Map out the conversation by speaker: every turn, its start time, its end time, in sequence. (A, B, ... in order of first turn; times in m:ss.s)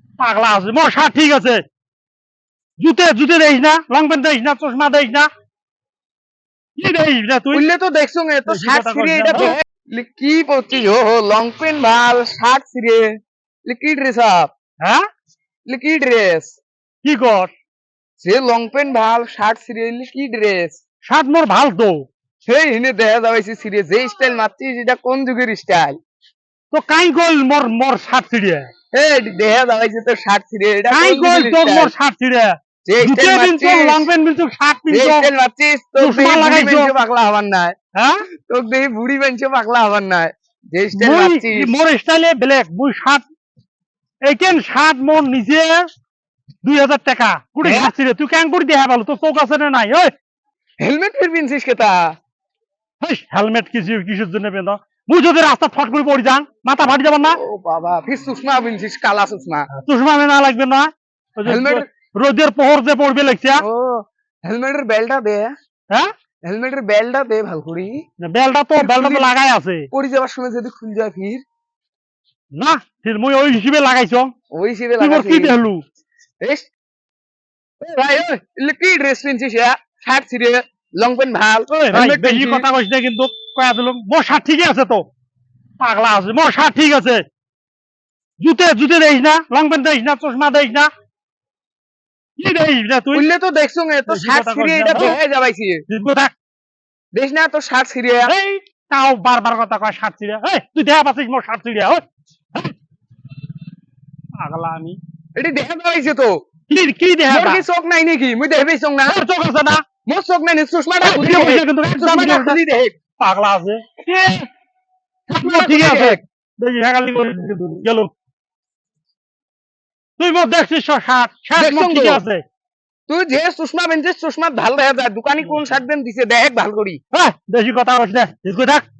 0:00.2-0:01.6 A
0:02.8-0:05.3 A
0:06.8-0:07.7 A
0:07.5-0:14.5 B
0:08.5-0:09.6 A
0:15.7-0:16.6 B
0:17.0-0:17.5 A
0:18.2-0:20.8 B
0:21.0-0:22.0 A
0:22.5-0:26.0 B
0:26.7-0:28.7 A
0:28.9-0:31.9 B
0:30.9-0:35.3 A
0:32.9-0:34.1 B
0:34.9-0:37.8 B
0:36.0-0:37.0 A
0:38.0-0:38.2 A
0:38.5-0:41.7 B
0:41.0-0:43.2 A
0:44.3-0:45.9 A
0:46.6-0:50.1 A
0:47.6-0:47.9 B
0:50.8-0:52.1 B
0:53.0-0:57.4 A
0:57.3-0:59.7 B
0:59.7-1:03.6 A
1:01.4-1:01.9 B
1:03.6-1:05.5 B
1:06.4-1:08.0 B
1:08.2-1:09.9 A
1:08.8-1:09.3 B
1:09.9-1:11.4 B
1:12.6-1:14.3 A
1:14.5-1:15.6 B
1:15.0-1:15.8 A
1:16.4-1:16.7 B
1:17.8-1:22.7 B
1:21.7-1:25.0 A
1:25.8-1:27.2 A
1:28.4-1:30.9 A
1:32.4-1:33.3 A
1:33.1-1:35.8 B
1:34.1-1:35.2 A
1:35.9-1:36.3 A
1:37.1-1:38.3 B
1:38.3-1:42.0 A
1:44.4-1:45.0 A
1:45.4-1:46.4 B
1:46.7-1:47.6 A
1:47.3-1:49.2 B
1:49.1-1:49.8 A
1:50.1-1:53.0 B
1:51.0-1:52.6 A
1:53.2-1:54.4 A
1:55.3-1:58.1 A
1:55.4-1:56.2 B
2:00.2-2:02.4 A
2:01.6-2:02.2 B
2:03.1-2:07.0 B
2:07.1-2:08.8 A